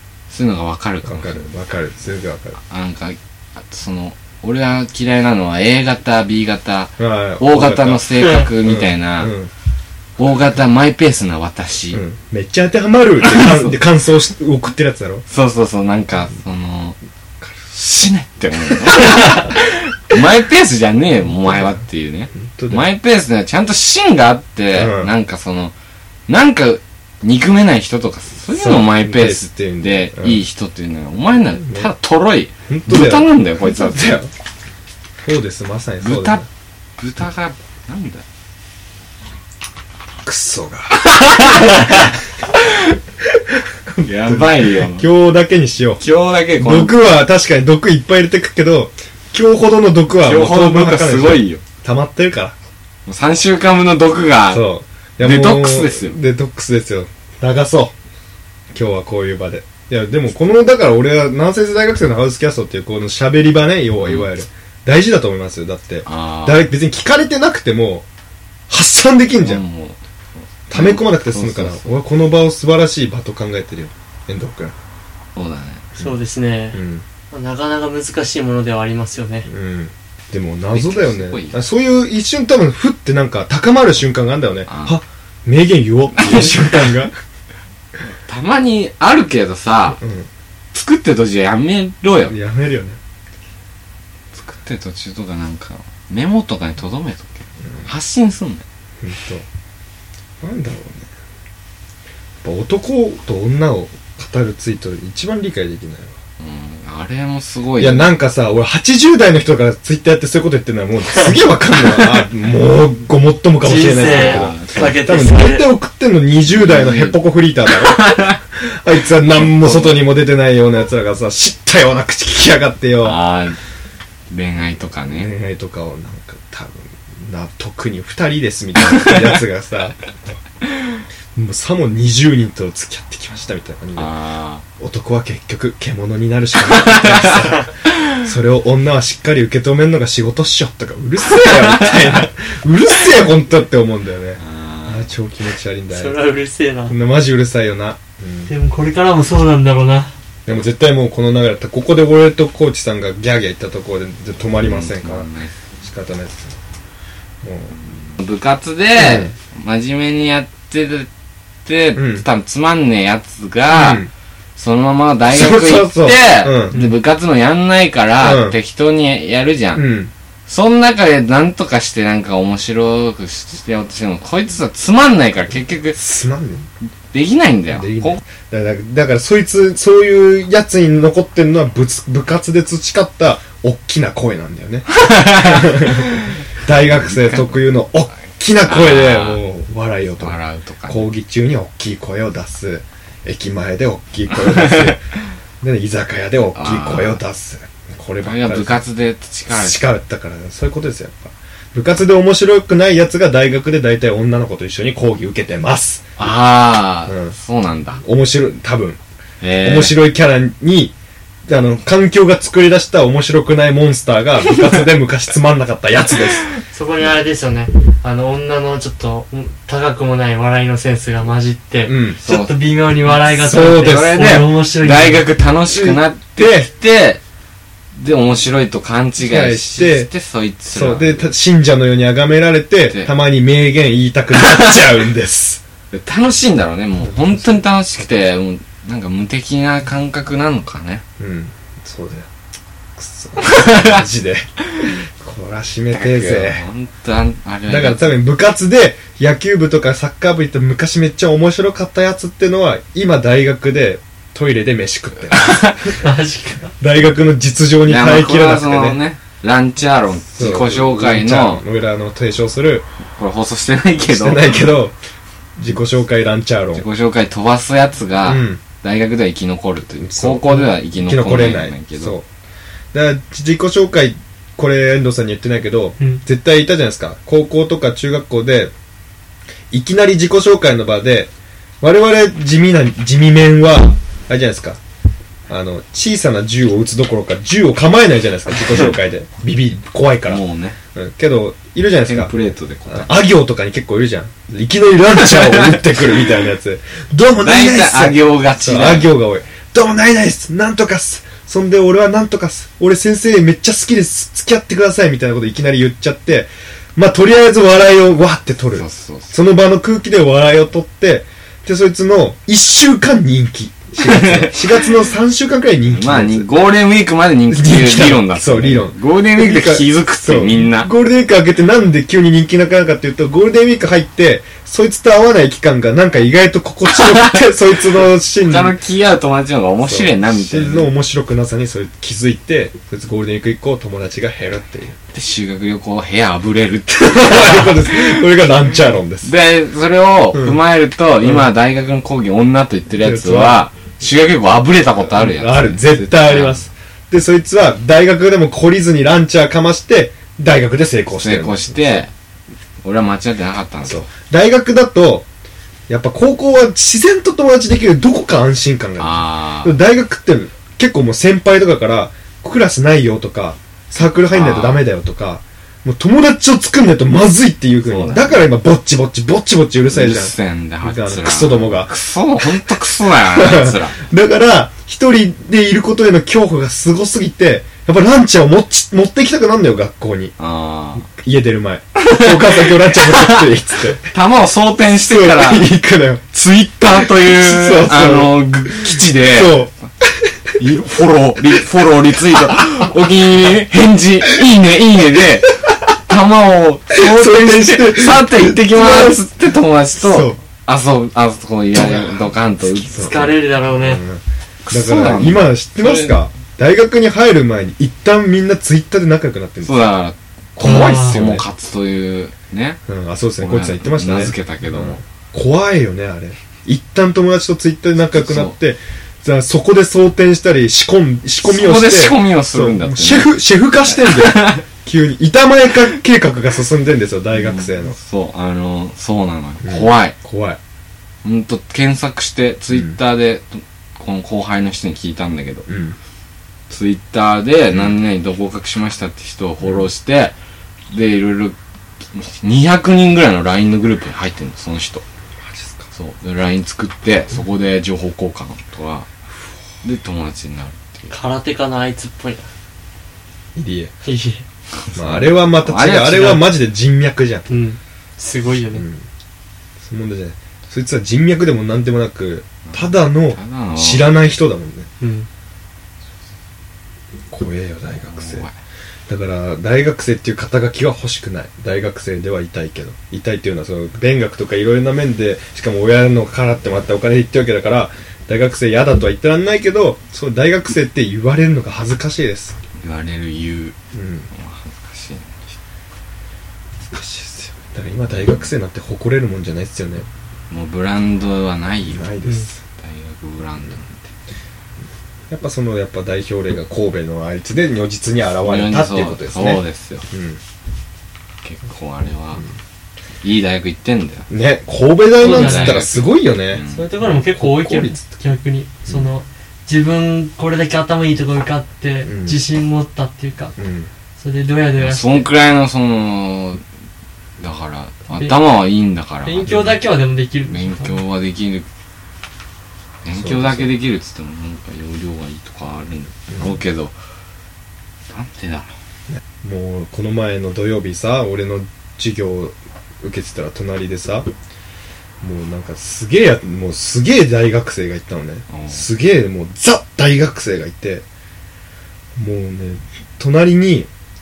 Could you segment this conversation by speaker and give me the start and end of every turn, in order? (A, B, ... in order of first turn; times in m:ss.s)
0:00.3-0:01.5 A
0:01.0-0:02.6 B
0:02.7-0:03.2 A
0:03.7-0:09.3 A
0:07.0-0:09.5 B
0:08.2-0:08.5 C
0:10.2-0:12.0 A
0:11.9-0:15.2 B
0:13.2-0:13.8 A
0:15.3-0:17.0 A
0:17.7-0:25.7 A
0:18.8-0:19.5 B
0:22.3-0:22.9 B
0:24.7-0:25.1 B
0:26.3-0:34.2 A
0:28.5-0:30.4 B
0:31.6-0:31.9 B
0:32.7-0:34.3 B
0:35.2-0:36.4 B
0:36.0-0:36.4 A
0:37.0-0:38.2 A
0:40.2-0:42.1 B
0:41.0-0:42.1 A
0:43.9-0:46.0 B
0:44.0-0:45.0 A
0:46.0-0:47.0 A
0:46.6-0:52.5 B
0:50.2-0:51.6 A
0:53.0-0:54.6 A
0:54.5-0:57.9 B
0:55.2-0:56.2 A
0:58.7-1:08.0 B
1:04.0-1:04.3 A
1:06.0-1:06.7 A
1:08.7-1:09.6 B
1:09.4-1:12.0 A
1:10.7-1:14.8 B
1:15.4-1:15.8 A
1:16.0-1:16.8 C
1:16.7-1:17.0 B
1:17.3-1:19.5 C
1:19.4-1:27.1 B
1:20.7-1:21.6 A
1:24.6-1:25.0 A
1:26.2-1:26.9 A
1:28.2-1:30.0 A
1:30.0-1:30.3 B
1:30.7-1:32.4 A
1:32.2-1:33.0 B
1:34.3-1:38.6 A
1:39.0-1:39.4 B
1:40.4-1:41.1 B
1:42.4-1:46.2 B
1:46.4-1:48.1 A
1:47.8-1:58.2 B
1:53.6-1:55.7 C
1:53.7-1:55.0 A
1:56.5-1:58.4 A
1:58.8-2:03.2 B
1:59.3-2:00.1 A
2:03.0-2:03.6 A
2:04.3-2:05.3 A
2:05.1-2:10.0 B
2:08.8-2:09.4 A
2:11.3-2:14.1 B
2:14.0-2:14.6 A
2:14.8-2:26.3 B
2:16.6-2:17.3 A
2:21.2-2:22.2 A
2:24.4-2:25.1 A
2:25.9-2:26.9 C
2:26.9-2:28.5 B
2:28.5-2:30.1 C
2:30.4-2:35.3 B
2:34.6-2:35.5 A
2:35.8-2:36.5 B
2:37.4-2:37.8 B
2:37.7-2:41.1 A
2:38.9-2:39.3 B
2:41.6-2:44.0 A
2:41.9-2:42.2 B
2:43.7-2:44.1 B
2:44.6-2:49.8 A
2:45.3-2:46.9 B
2:48.2-2:48.6 B
2:49.7-2:50.1 B
2:50.5-2:56.0 A
2:55.9-2:56.6 B
2:57.1-2:58.2 A
2:57.7-3:15.0 B
3:05.0-3:06.2 A
3:06.8-3:07.6 A
3:08.6-3:09.4 A
3:10.2-3:11.1 A
3:14.3-3:14.9 A
3:15.6-3:18.8 B
3:16.5-3:17.2 A
3:18.2-3:19.8 A
3:19.5-3:26.1 B
3:26.2-3:28.0 A
3:27.1-3:27.4 B
3:28.0-3:29.0 B
3:29.4-3:30.0 A
3:29.6-3:30.9 B
3:31.5-3:36.5 B
3:36.7-3:45.3 C
3:41.8-3:42.2 B
3:42.2-3:47.2 A
3:43.2-3:44.3 B
3:45.6-3:46.7 B
3:48.0-3:51.3 A
3:49.2-3:50.1 B
3:50.7-3:55.6 B
3:55.9-4:01.0 A
3:57.1-3:57.6 B
4:01.2-4:02.3 B
4:03.0-4:06.7 B
4:03.5-4:03.8 A
4:05.9-4:08.2 A
4:07.7-4:16.0 B
4:15.2-4:16.0 A
4:16.0-4:16.7 C
4:16.8-4:19.0 B
4:17.8-4:21.6 A
4:20.4-4:22.8 B
4:23.2-4:24.8 A
4:24.1-4:24.9 B
4:25.6-4:26.8 B
4:26.7-4:32.2 A
4:28.2-4:28.6 B
4:30.0-4:32.2 B
4:32.9-4:38.7 B
4:39.7-4:44.8 B
4:45.5-4:50.4 B
4:48.6-4:49.0 A
4:50.2-4:50.8 A
4:50.9-4:52.3 B
4:52.0-4:53.1 A
4:52.8-5:16.5 B
4:57.4-4:59.1 A
5:08.7-5:09.3 A
5:14.0-5:14.9 A
5:15.8-5:20.9 A
5:17.5-5:28.8 B
5:27.0-5:27.3 A
5:28.0-5:30.9 A
5:29.8-5:35.0 B
5:35.1-5:38.2 A
5:37.0-5:39.3 B
5:39.2-5:46.6 A
5:40.3-5:40.6 B
5:41.2-5:41.5 B
5:42.9-5:43.6 B
5:45.0-5:52.0 B
5:51.1-5:52.1 A
5:52.8-5:54.1 A
5:53.8-5:55.3 B
5:55.9-6:12.6 B
5:59.0-5:59.7 A
6:04.1-6:04.8 A
6:07.8-6:08.4 A
6:09.9-6:14.0 A
6:13.3-6:20.3 B
6:20.4-6:21.0 A
6:21.0-6:24.1 B
6:22.0-6:25.7 A
6:24.8-6:26.2 B
6:26.3-6:29.6 A
6:26.9-6:29.7 B
6:30.6-6:43.4 A
6:36.9-6:39.2 B
6:40.0-6:40.4 B
6:41.7-6:42.4 B
6:42.7-6:44.0 C
6:42.9-6:49.9 B
6:44.7-6:46.2 A
6:49.6-6:52.8 A
6:50.6-6:51.4 B
6:50.6-6:51.2 C
6:52.9-7:08.0 B
6:53.4-6:55.0 A
6:58.1-6:58.5 A
7:01.4-7:03.3 A
7:03.9-7:04.6 A
7:07.3-7:10.1 A
7:09.6-7:10.6 B
7:11.2-7:15.7 A
7:12.7-7:13.0 B
7:15.7-7:16.0 B
7:16.7-7:20.3 A
7:20.9-7:21.6 A
7:22.1-7:25.0 A
7:25.4-7:25.9 B
7:25.9-7:29.1 A
7:29.8-7:31.1 A
7:31.1-7:32.5 C
7:33.5-7:33.9 B
7:34.0-7:34.4 C
7:34.9-7:36.5 A
7:34.9-7:37.5 B
7:37.5-7:38.8 C
7:38.7-7:39.0 B
7:39.8-7:44.9 B
7:42.6-7:44.1 A
7:45.0-7:45.3 C
7:47.3-7:48.4 B
7:48.0-7:48.6 A
7:49.1-8:02.6 B
8:02.8-8:03.7 A
8:03.9-8:04.3 B
8:04.3-8:05.4 A
8:06.9-8:10.1 B
8:10.5-8:12.1 A
8:11.9-8:12.6 B
8:12.8-8:14.1 A
8:15.3-8:20.4 B
8:18.4-8:20.1 A
8:21.4-8:22.4 A
8:23.2-8:24.2 A
8:24.3-8:28.0 B
8:25.2-8:26.9 A
8:25.2-8:25.8 C
8:26.7-8:33.5 C
8:32.0-8:32.4 B
8:33.6-8:33.9 B
8:34.2-8:35.3 C
8:34.8-8:36.6 A
8:37.4-8:39.5 A
8:38.1-8:38.3 C
8:39.2-8:40.9 C
8:39.4-8:39.8 B
8:40.5-8:41.7 A
8:43.0-8:47.0 A
8:43.1-8:43.7 B
8:48.1-8:48.7 A
8:49.4-8:54.3 B
8:55.2-9:01.0 B
8:58.5-8:58.8 A
9:02.2-9:03.9 B